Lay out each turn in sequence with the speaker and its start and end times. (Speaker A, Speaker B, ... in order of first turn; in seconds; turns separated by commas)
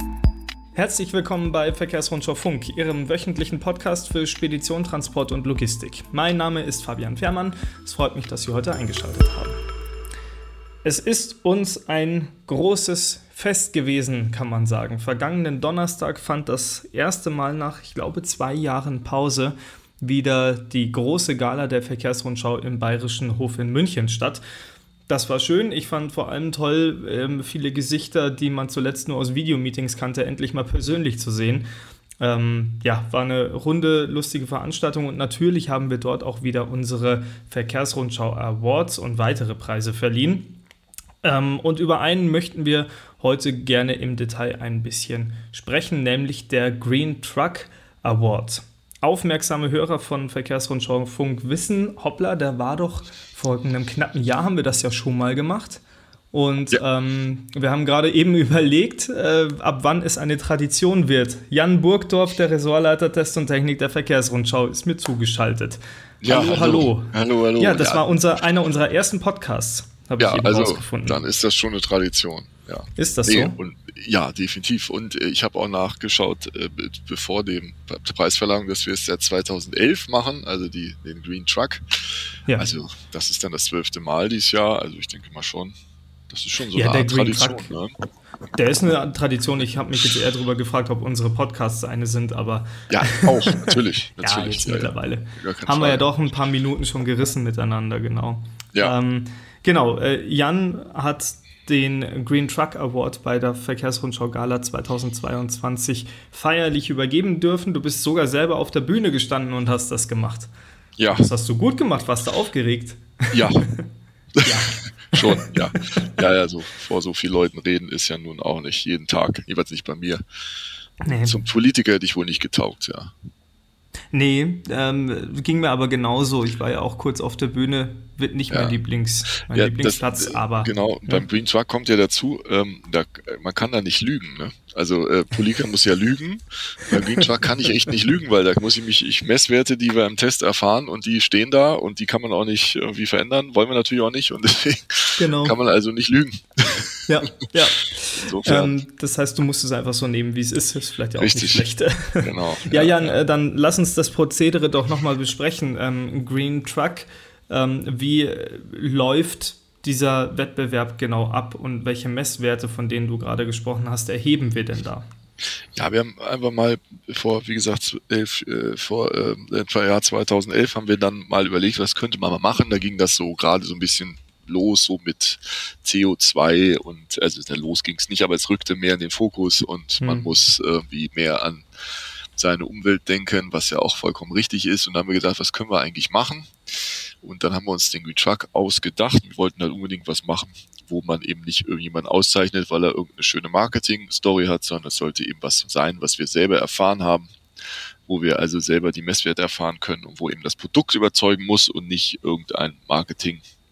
Speaker A: 0.7-9.6, Speaker A: 10.8-24.4, Speaker A: 25.1-31.6, Speaker A: 32.2-40.6, Speaker A: 41.2-71.2, Speaker B: 66.2-68.1, Speaker B: 70.2-81.8, Speaker A: 73.0-73.6, Speaker B: 82.5-85.7, Speaker B: 86.3-87.9, Speaker A: 86.7-87.8, Speaker A: 88.5-110.5, Speaker B: 92.9-96.3, Speaker B: 111.0-111.3, Speaker A: 111.2-113.8, Speaker B: 113.3-113.7, Speaker A: 114.4-116.0, Speaker B: 114.4-120.2, Speaker A: 121.0-121.4, Speaker B: 121.1-123.1, Speaker A: 124.1-131.3, Speaker B: 128.5-128.8, Speaker B: 129.4-147.0, Speaker A: 145.2-145.6, Speaker A: 147.1-165.1, Speaker B: 148.2-148.8, Speaker B: 151.2-153.2, Speaker B: 165.7-181.7, Speaker A: 180.0-180.3, Speaker B: 182.3-197.3, Speaker B: 198.1-203.4